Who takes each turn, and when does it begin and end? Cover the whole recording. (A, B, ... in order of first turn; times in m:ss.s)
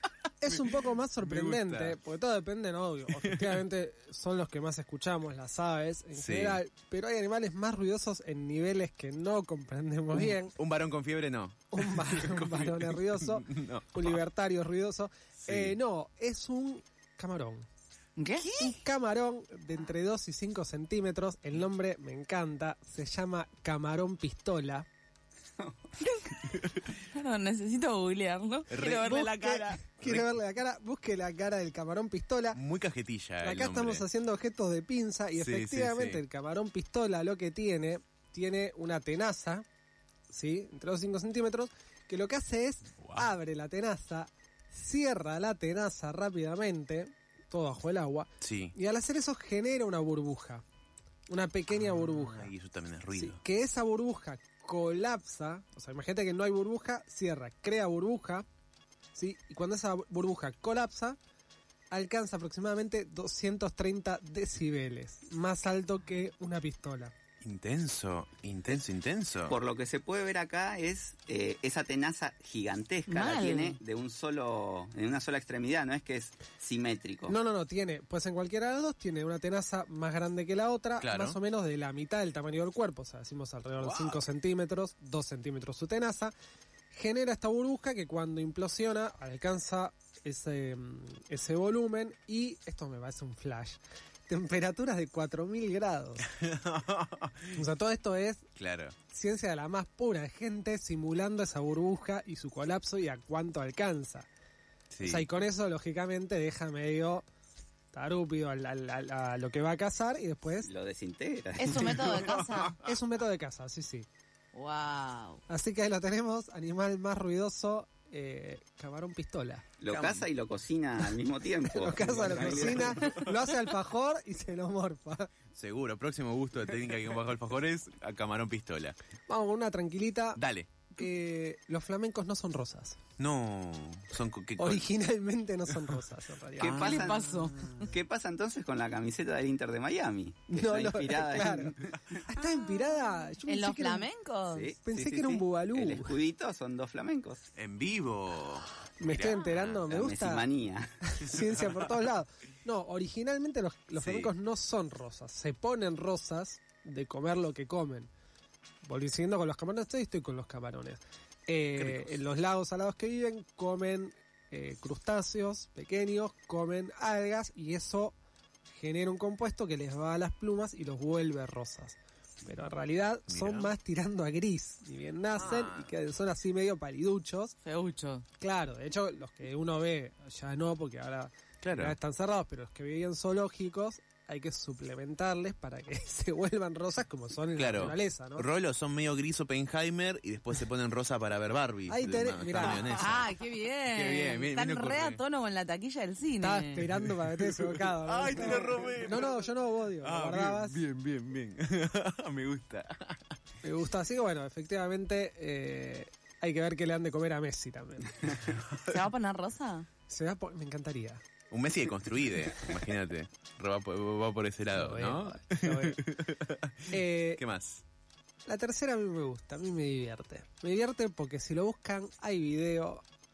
0:00.4-0:10.5 A
0:00.4-0:02.0 B
0:03.1-0:03.6 B
0:06.1-0:06.6 B
0:10.1-0:14.2 B
0:11.7-0:17.6 A
0:15.4-0:15.8 B
0:18.2-0:18.6 C
0:18.4-0:18.7 B
0:18.6-0:24.9 A
0:25.6-0:25.9 D
0:26.0-0:26.3 C
0:26.9-0:29.8 C
0:28.7-0:29.1 B
0:29.0-0:32.6 A
0:30.0-0:30.3 B
0:32.5-0:34.0 B
0:33.4-0:39.6 A
0:35.3-0:36.2 B
0:40.3-0:50.6 A
0:43.0-0:43.3 B
0:48.4-0:48.7 B
0:51.3-0:52.5 A
0:51.7-0:53.4 B
0:53.1-0:58.4 A
0:59.1-1:01.2 A
1:01.9-1:07.1 A
1:07.4-1:09.6 B
1:09.5-1:17.4 D
1:13.1-1:13.8 C
1:17.3-1:26.3 A
1:21.0-1:21.4 B
1:23.8-1:24.2 B
1:26.9-1:36.3 A
1:36.3-1:37.6 B
1:37.5-1:38.4 A
1:38.6-1:38.9 B
1:39.1-1:44.3 A
1:44.9-1:45.3 B
1:45.0-1:47.2 A
1:47.9-1:50.7 A
1:50.6-1:52.0 D
1:51.6-1:52.8 C
1:52.1-1:52.7 B
1:52.8-1:54.1 A
1:54.5-1:55.4 C
1:55.5-1:59.6 A
1:59.8-2:03.0 D
1:59.9-2:00.2 B
2:01.7-2:05.3 A
2:02.2-2:03.2 B
2:05.5-2:09.0 B
2:09.3-2:10.4 A
2:10.4-2:10.7 B
2:11.0-2:13.0 A
2:13.2-2:14.8 B
2:14.6-2:17.1 A
2:16.6-2:17.2 D
2:16.6-2:17.0 B
2:16.7-2:17.8 C
2:17.5-2:17.8 B
2:17.8-2:22.2 D
2:20.5-2:24.1 A
2:22.4-2:24.7 C
2:24.5-2:27.4 D
2:24.8-2:26.2 A
2:27.5-2:29.8 B
2:29.0-2:30.4 A
2:29.9-2:31.0 D
2:31.1-2:38.1 A
2:34.0-2:34.3 B
2:38.8-2:48.2 A
2:41.7-2:42.2 B
2:48.7-2:57.5 A
2:53.3-2:53.7 B
2:55.3-2:55.9 B
2:57.6-2:58.2 C
2:58.4-3:08.5 A
3:01.6-3:02.0 B
3:07.6-3:13.3 B
3:11.9-3:13.1 A
3:12.6-3:16.9 C
3:13.9-3:15.2 B
3:16.4-3:20.8 A
3:17.0-3:23.3 B
3:23.6-3:28.5 A
3:28.9-3:29.9 C
3:30.1-3:31.2 A
3:31.5-3:37.8 B
3:34.7-3:36.0 A
3:36.9-3:37.4 A
3:38.4-3:43.0 A